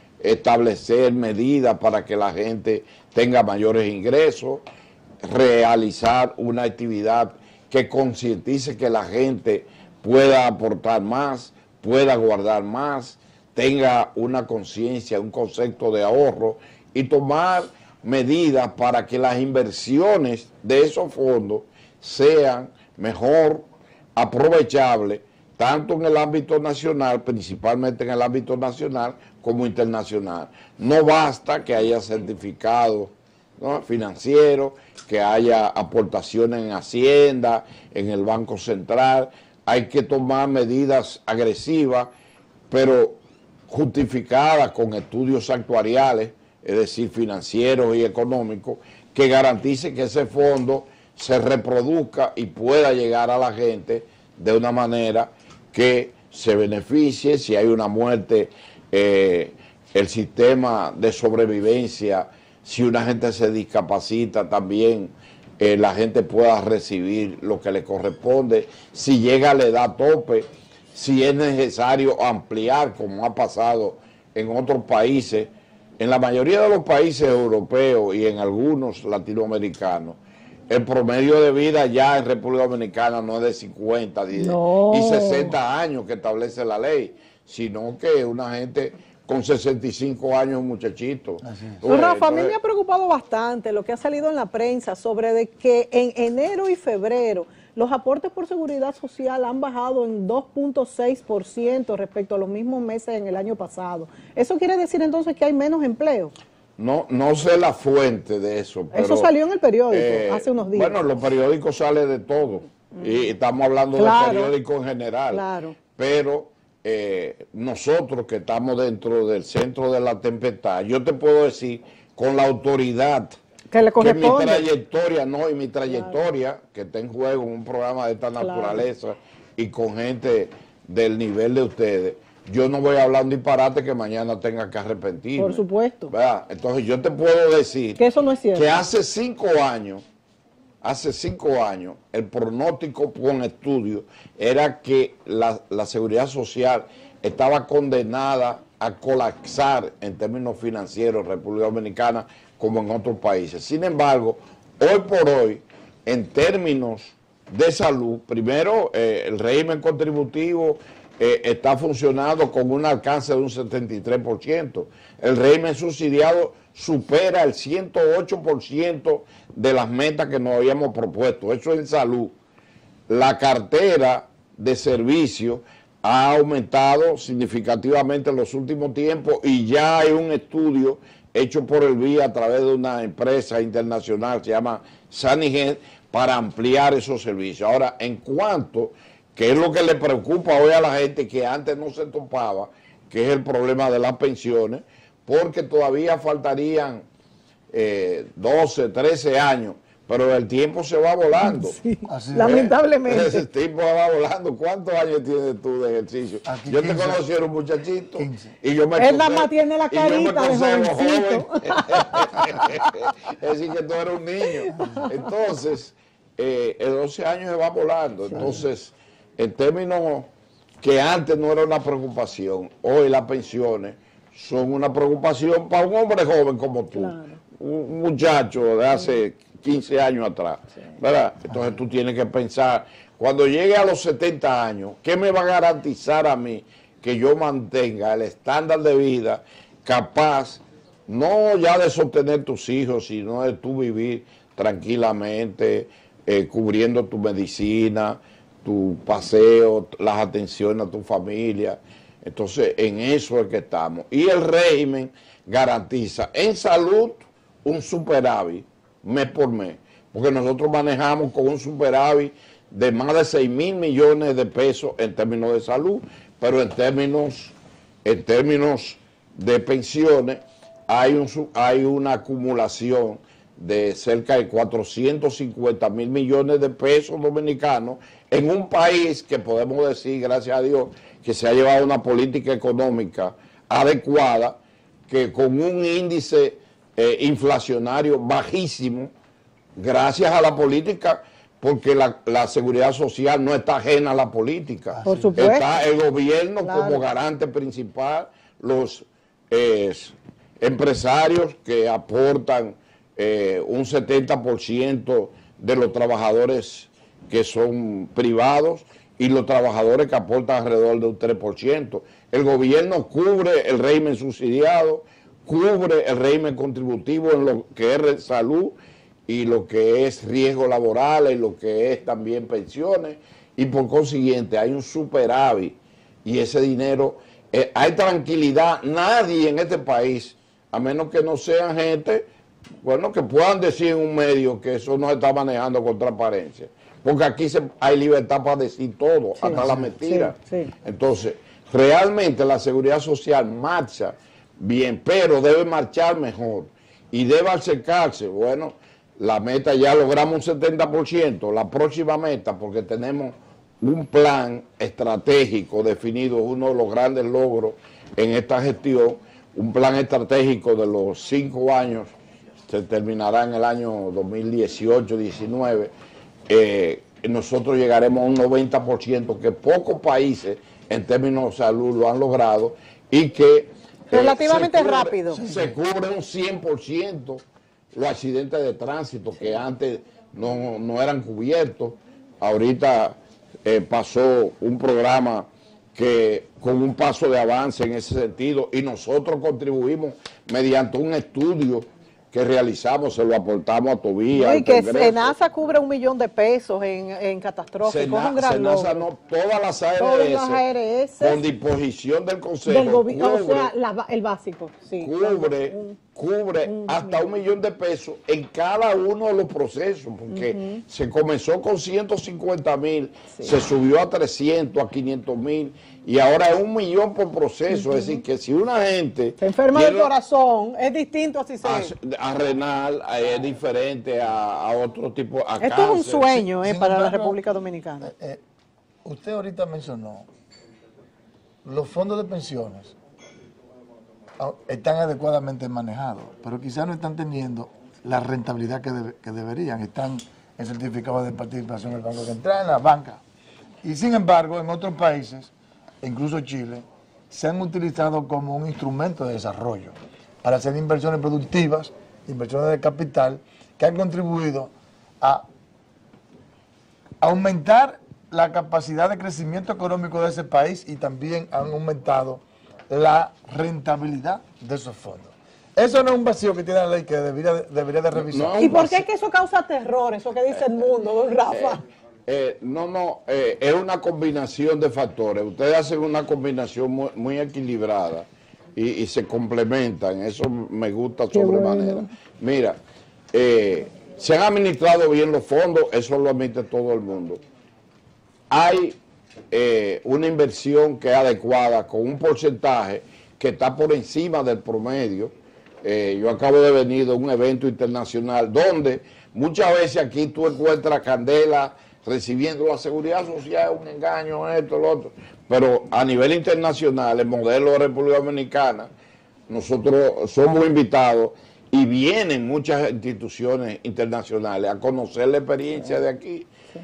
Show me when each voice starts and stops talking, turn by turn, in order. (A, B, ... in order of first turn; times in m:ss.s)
0:00.2-0:04.6 A
0:05.2-0:23.6 A
0:24.2-0:42.1 A
0:42.7-1:20.2 A
1:20.7-1:32.5 A
1:24.4-1:25.5 B
1:31.4-1:31.8 C
1:31.8-1:46.3 B
1:46.8-1:49.3 A
1:48.9-1:51.0 B
1:49.9-1:55.4 A
1:54.0-1:54.5 B
1:55.3-1:55.7 B
1:55.9-2:03.4 A
2:03.7-2:04.6 B
2:04.0-2:18.0 A
2:08.4-2:08.8 B
2:15.4-2:16.1 B
2:18.0-2:18.8 B
2:18.5-2:20.0 A
2:20.8-2:52.3 A
2:53.1-3:17.0 A
3:17.7-3:21.8 A
3:21.4-3:23.4 B
3:22.1-3:22.7 C
3:22.4-3:40.3 A
3:26.4-3:27.2 C
3:28.2-3:28.5 C
3:29.0-3:32.9 B
3:34.4-3:35.1 B
3:40.8-4:44.6 A
3:46.9-3:47.4 B
4:45.1-4:49.1 A
4:49.8-5:18.8 A
4:54.9-4:55.4 C
4:55.0-4:55.7 B
4:56.6-4:57.0 B
5:19.3-5:32.2 A
5:32.8-6:02.1 A
5:39.4-5:40.7 B
5:39.5-5:39.9 C
6:02.7-6:05.9 A
6:06.5-6:17.4 A
6:14.1-6:15.4 B
6:15.4-6:15.7 C
6:17.9-6:35.3 A
6:34.3-6:39.0 B
6:37.8-6:40.6 A
6:40.0-6:41.4 B
6:41.2-6:43.7 A
6:42.6-6:46.0 B
6:45.0-7:00.1 A
6:46.6-6:47.2 B
6:50.3-6:50.8 B
6:57.7-6:58.2 B
6:59.4-7:01.9 B
7:01.6-7:06.5 A
7:05.6-7:08.1 B
7:06.6-7:07.4 C
7:08.0-7:08.4 C
7:09.0-7:10.3 C
7:11.6-7:13.0 C
7:14.4-7:23.2 C
7:23.8-7:35.4 C
7:37.2-7:48.8 C
7:48.1-7:49.0 A
7:48.6-7:51.8 B
7:51.5-8:02.8 A
8:01.3-8:02.1 B
8:03.3-8:07.4 A
8:08.5-8:09.0 A
8:09.5-8:15.3 A
8:15.8-8:28.9 A
8:29.5-8:36.5 A